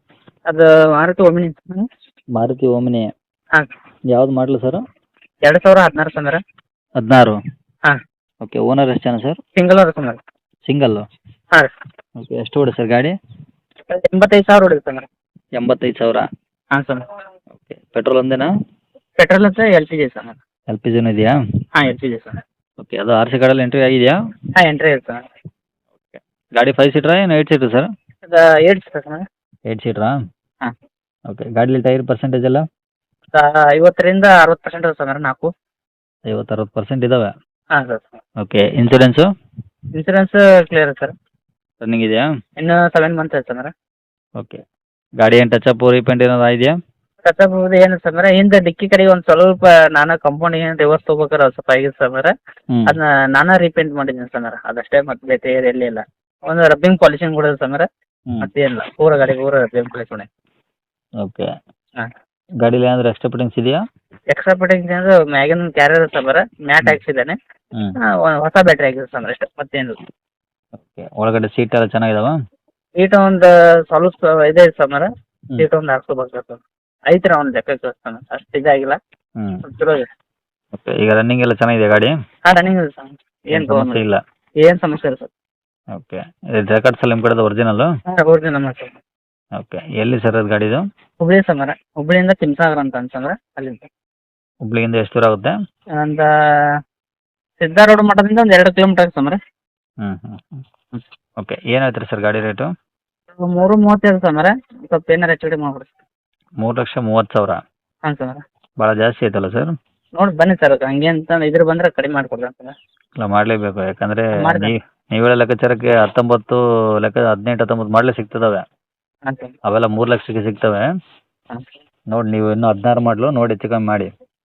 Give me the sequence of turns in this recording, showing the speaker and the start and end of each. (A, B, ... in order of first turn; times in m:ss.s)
0:00.5-0:01.9 A
0:02.3-0:03.1 B
0:04.1-0:04.8 B
0:05.4-0:06.4 A
0:07.0-0:07.4 B
0:08.4-0:09.4 B
0:09.6-0:10.2 A
0:10.6-0:11.0 B
0:12.2-0:13.1 B
0:13.9-0:15.1 A
0:15.6-0:16.2 B
0:16.7-0:17.0 A
0:17.6-0:18.5 B
0:19.2-0:20.4 A
0:20.7-0:21.4 B
0:21.7-0:22.4 A
0:22.8-0:24.1 B
0:24.6-0:25.2 A
0:26.0-0:27.9 B
0:28.2-0:29.2 A
0:29.7-0:30.2 B
0:31.3-0:32.6 B
0:33.3-0:35.5 A
0:36.3-0:37.3 B
0:37.8-0:38.2 A
0:38.4-0:39.3 B
0:40.0-0:41.1 A
0:41.8-0:42.2 B
0:42.6-0:43.7 A
0:45.2-0:46.7 B
0:47.2-0:52.3 A
0:52.7-0:53.0 B
0:52.8-0:57.9 A
0:58.4-1:00.3 A
1:01.2-1:01.5 B
1:02.6-1:03.8 B
1:04.3-1:07.4 A
1:08.2-1:10.0 A
1:10.8-1:12.3 B
1:13.0-1:19.0 A
1:19.6-1:20.0 A
1:20.7-1:22.2 B
1:22.4-1:24.0 A
1:23.5-1:24.2 B
1:24.6-1:25.3 A
1:25.9-1:27.9 B
1:28.2-1:28.9 A
1:29.6-1:30.8 B
1:31.2-1:33.9 A
1:34.6-1:35.5 B
1:36.0-1:36.3 A
1:37.6-1:39.4 A
1:40.0-1:40.6 B
1:41.4-1:42.7 B
1:43.4-1:45.9 A
1:46.6-1:47.6 B
1:48.0-1:48.4 A
1:48.8-1:49.7 B
1:50.2-1:52.8 A
1:53.2-1:58.6 B
1:54.4-1:54.7 A
1:59.2-1:59.5 A
1:59.6-2:00.9 B
2:02.1-2:04.1 B